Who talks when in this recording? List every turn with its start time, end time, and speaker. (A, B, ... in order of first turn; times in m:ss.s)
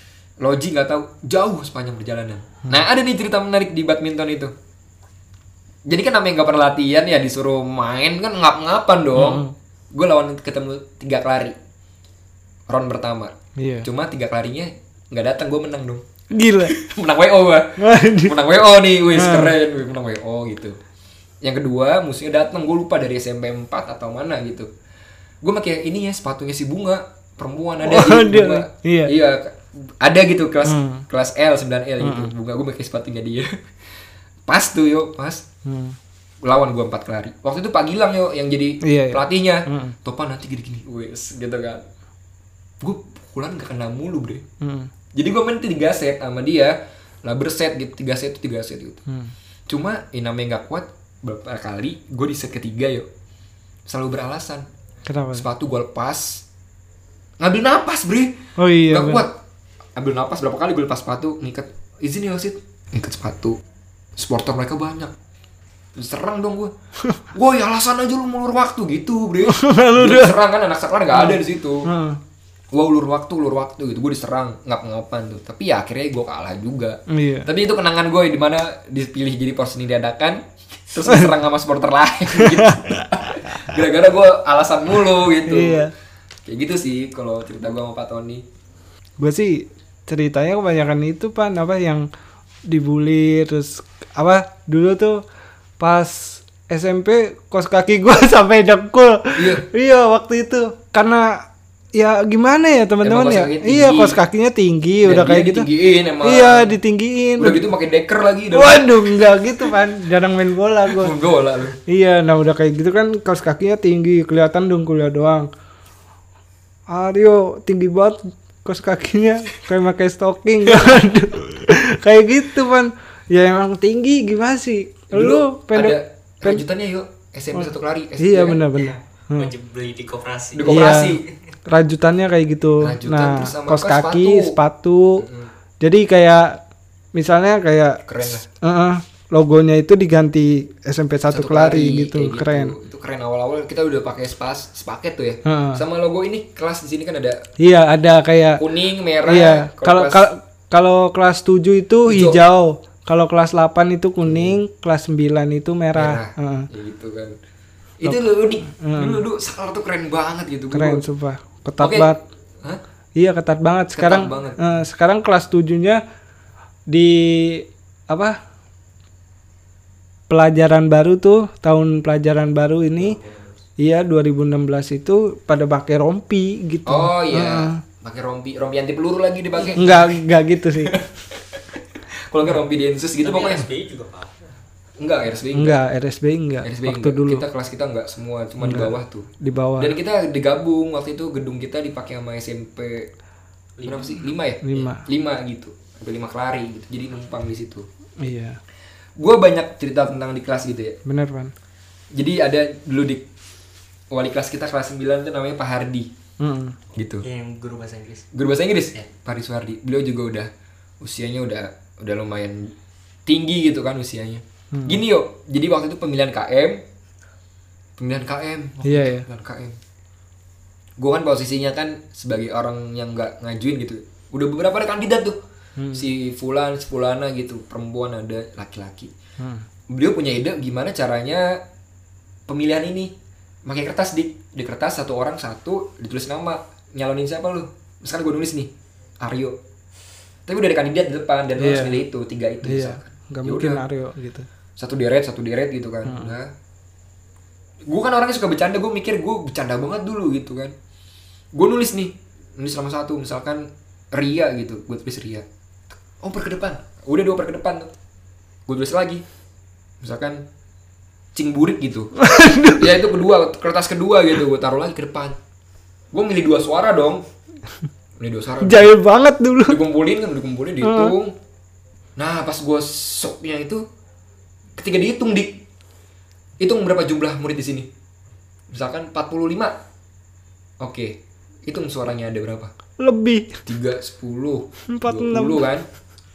0:00.4-0:04.5 A
0:05.9-0:11.6 A
0:09.1-0:09.5 B
0:12.7-0:16.0 A
0:13.6-0:13.9 B
0:16.3-0:16.7 B
0:16.6-0:20.8 A
0:17.8-0:18.3 B
0:19.1-0:19.5 B
0:21.4-0:24.7 A
0:25.4-0:33.5 A
0:27.8-0:29.1 B
0:30.6-0:31.0 B
0:32.0-0:32.3 B
0:34.5-0:35.4 A
0:35.6-0:36.0 B
0:36.4-0:41.8 A
0:38.8-0:39.9 B
0:42.8-0:44.4 A
0:44.6-0:44.9 B
0:45.1-0:49.0 A
0:49.7-0:53.1 A
0:53.9-0:54.6 A
0:55.1-0:55.4 B
0:55.3-0:56.4 A
0:57.4-0:58.4 A
0:58.6-0:59.2 B
0:58.9-0:59.3 A
1:00.0-1:03.6 A
1:04.2-1:05.1 A
1:06.0-1:06.7 A
1:07.3-1:11.9 A
1:09.4-1:10.4 B
1:11.1-1:12.2 B
1:12.7-1:25.9 A
1:17.1-1:17.5 B
1:22.4-1:23.0 B
1:25.4-1:25.9 B
1:26.4-1:28.4 A
1:29.2-1:32.1 B
1:32.7-1:35.2 B
1:35.8-1:45.7 B
1:39.4-1:39.6 A
1:43.0-1:44.2 A
1:45.0-1:46.8 A
1:46.2-1:47.6 B
1:47.4-1:49.4 A
1:48.5-1:51.1 B
1:50.9-1:51.8 A
1:51.9-1:55.5 B
1:56.9-2:06.6 B
2:05.1-2:08.6 A
2:08.2-2:09.5 B
2:08.7-2:11.3 C
2:10.5-2:11.2 A
2:10.6-2:15.2 B
2:12.8-2:14.6 A
2:15.2-2:15.5 A
2:15.8-2:16.6 B
2:17.1-2:18.0 B
2:18.0-2:18.4 A
2:18.6-2:22.8 B
2:21.3-2:27.4 A
2:25.4-2:25.8 B
2:27.6-2:28.6 B
2:28.6-2:30.3 A
2:29.2-2:36.7 B
2:32.1-2:32.4 A
2:34.2-2:34.6 A
2:35.9-2:37.4 A
2:38.0-2:41.0 A
2:38.0-2:39.2 B
2:40.7-2:42.2 B
2:41.8-2:42.1 A
2:43.2-2:46.0 B
2:43.9-2:44.6 A
2:46.9-2:48.4 B
2:50.3-2:53.2 B
2:53.0-2:53.6 C
2:53.8-2:57.8 B
2:56.8-3:03.7 A
2:59.7-3:01.0 B
3:03.2-3:04.5 C
3:05.0-3:05.8 A
3:05.5-3:07.4 B
3:06.6-3:13.1 A
3:08.6-3:09.9 B
3:13.8-3:14.3 C
3:13.8-3:17.9 A
3:14.6-3:15.0 B
3:18.2-3:18.6 B
3:19.2-3:21.0 A
3:21.0-3:21.5 B
3:22.1-3:23.2 A
3:24.1-3:26.1 A
3:26.4-3:26.8 B
3:26.9-3:27.2 A
3:27.2-3:28.3 C
3:28.3-3:30.5 A
3:31.0-3:32.7 A
3:33.2-3:36.8 A
3:34.7-3:35.0 B
3:38.0-3:39.8 A
3:38.8-3:39.2 B
3:41.0-3:45.4 A
3:45.8-3:46.0 B
3:45.9-3:49.1 A
3:49.4-3:49.6 B
3:49.9-3:51.6 A
3:52.5-3:53.1 A
3:53.6-3:59.6 A
4:00.4-4:03.8 A
4:01.6-4:02.0 B
4:02.6-4:04.5 B
4:04.8-4:06.5 A
4:06.0-4:06.3 B
4:07.9-4:10.7 A
4:11.5-4:15.4 A
4:16.2-4:17.9 A
4:18.7-4:19.2 A
4:20.0-4:20.4 A
4:21.3-4:22.1 A
4:22.2-4:23.0 B
4:22.8-4:25.4 A
4:26.1-4:27.2 A
4:28.2-4:28.9 A
4:28.6-4:29.8 B
4:29.7-4:31.3 A
4:30.8-4:31.1 B
4:32.2-4:33.8 A
4:34.8-4:35.6 A
4:36.6-4:37.9 A
4:38.7-4:39.7 A
4:40.8-4:42.7 A
4:43.0-4:43.6 B
4:43.6-4:45.8 A
4:44.9-4:45.6 B